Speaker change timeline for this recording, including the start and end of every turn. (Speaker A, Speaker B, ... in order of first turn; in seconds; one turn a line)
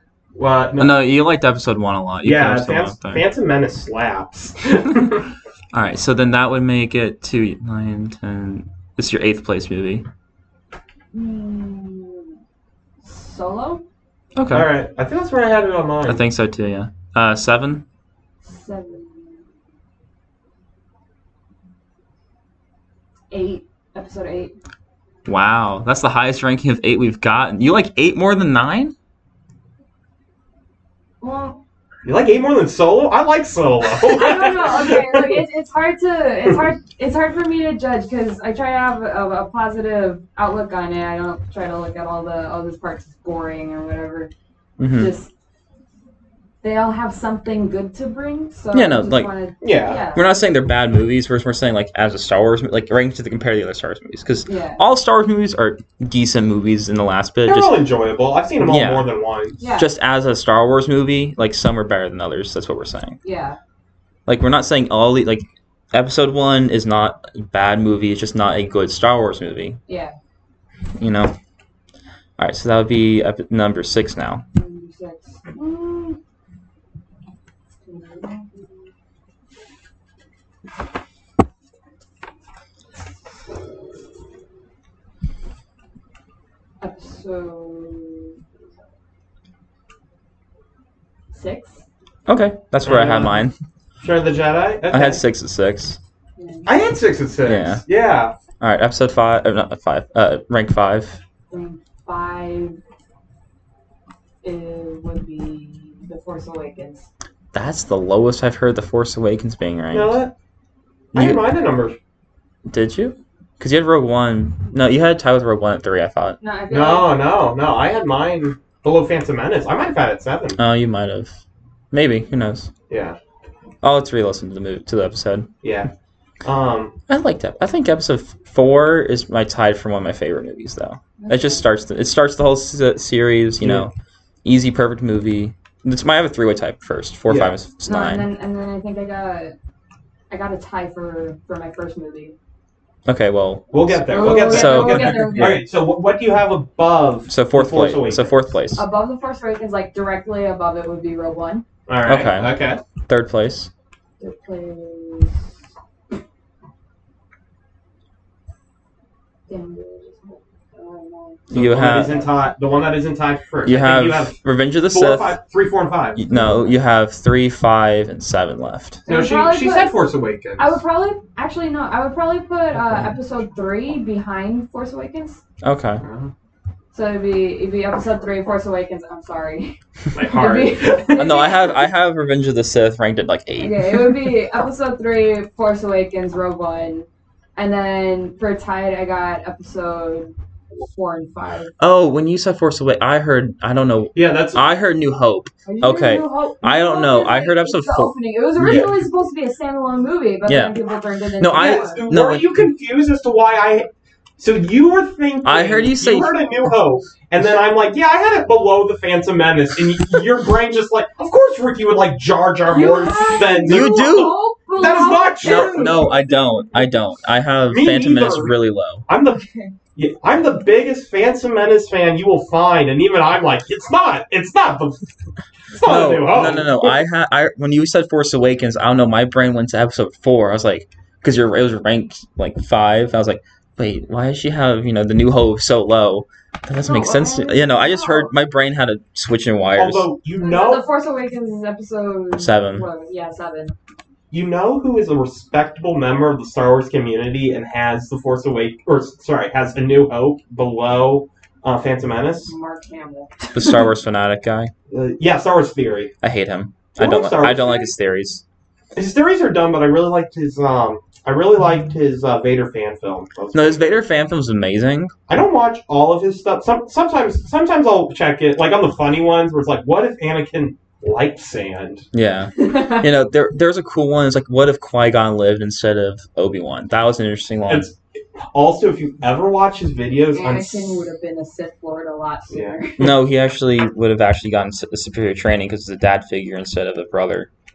Speaker A: 0.3-0.9
Speaker B: 0.8-3.2
Speaker A: 2.2-5.2
Speaker B: 5.7-10.1
Speaker C: 11.1-12.4
Speaker C: 13.0-13.8
Speaker B: 14.3-14.7
Speaker A: 14.5-16.2
Speaker B: 16.1-17.8
Speaker C: 18.4-19.4
Speaker C: 23.3-24.5
Speaker B: 25.2-28.9
Speaker C: 31.2-31.6
Speaker A: 32.0-35.3
Speaker C: 34.1-44.3
Speaker B: 44.8-45.1
Speaker C: 44.9-45.3
Speaker C: 46.6-50.3
Speaker B: 48.7-49.3
Speaker A: 49.6-50.0
Speaker B: 50.1-57.7
Speaker C: 54.5-54.8
Speaker A: 57.4-59.6
Speaker B: 58.6-59.1
Speaker C: 59.6-59.9
Speaker B: 59.7-63.2
Speaker C: 63.2-63.6
Speaker B: 64.3-69.8
Speaker C: 69.9-70.1
Speaker B: 71.0-71.3
Speaker B: 72.4-74.4
Speaker C: 74.5-76.2
Speaker C: 77.8-78.9
Speaker C: 86.8-88.4
Speaker C: 91.3-91.8
Speaker B: 92.3-93.5
Speaker A: 92.8-93.5
Speaker A: 94.0-95.2
Speaker B: 94.9-96.0
Speaker C: 96.4-96.7
Speaker A: 96.6-98.3
Speaker B: 97.4-97.8
Speaker B: 98.6-101.2
Speaker C: 101.5-102.8
Speaker C: 104.4-107.1
Speaker B: 107.5-110.2
Speaker A: 109.9-110.3
Speaker B: 111.1-111.4
Speaker A: 111.1-112.0
Speaker B: 112.7-116.4
Speaker C: 116.4-117.2
Speaker A: 116.7-120.6
Speaker B: 120.6-121.4
Speaker B: 121.9-122.7
Speaker A: 122.9-123.2
Speaker B: 123.8-125.5
Speaker A: 125.6-125.9
Speaker A: 126.4-127.0
Speaker B: 127.1-133.9
Speaker C: 131.2-131.6
Speaker A: 133.6-133.9
Speaker B: 134.4-138.2
Speaker A: 137.3-137.6
Speaker C: 137.8-139.5
Speaker C: 140.3-142.3
Speaker B: 143.1-145.6
Speaker A: 143.7-148.4
Speaker C: 144.1-145.6
Speaker B: 147.3-148.8
Speaker C: 148.8-151.6
Speaker A: 151.9-152.8
Speaker B: 152.1-153.7
Speaker C: 154.2-155.4
Speaker C: 159.5-161.4
Speaker B: 161.5-162.3
Speaker A: 161.5-164.4
Speaker B: 163.6-165.4
Speaker A: 164.9-166.6
Speaker B: 166.2-169.0
Speaker C: 169.1-170.0
Speaker A: 169.1-170.8
Speaker C: 170.6-175.4
Speaker B: 175.6-176.0
Speaker A: 176.0-176.3
Speaker C: 176.9-181.8
Speaker A: 180.1-181.3
Speaker B: 181.2-184.3
Speaker C: 183.6-191.7
Speaker B: 191.8-198.1
Speaker A: 194.1-194.6
Speaker C: 195.7-202.0
Speaker A: 198.6-198.9
Speaker B: 200.5-200.8
Speaker B: 201.4-202.7
Speaker A: 201.5-216.1
Speaker B: 205.4-206.3
Speaker C: 212.7-217.0
Speaker B: 213.6-214.3
Speaker B: 215.4-219.0
Speaker A: 217.7-219.4
Speaker C: 219.3-219.7
Speaker A: 219.9-225.0
Speaker A: 225.7-226.9
Speaker B: 225.8-240.1
Speaker C: 236.8-238.3
Speaker A: 239.8-240.8
Speaker C: 240.4-243.7
Speaker B: 242.3-242.8
Speaker A: 244.3-252.5
Speaker C: 252.5-253.8
Speaker B: 253.5-254.7
Speaker A: 254.9-256.1
Speaker B: 256.2-258.4
Speaker A: 256.9-257.9
Speaker A: 258.9-263.9
Speaker B: 263.5-265.1
Speaker A: 265.3-272.1
Speaker B: 272.1-277.9
Speaker C: 272.6-273.0
Speaker A: 277.7-281.0
Speaker C: 280.3-283.1
Speaker A: 282.5-282.8
Speaker B: 283.0-287.5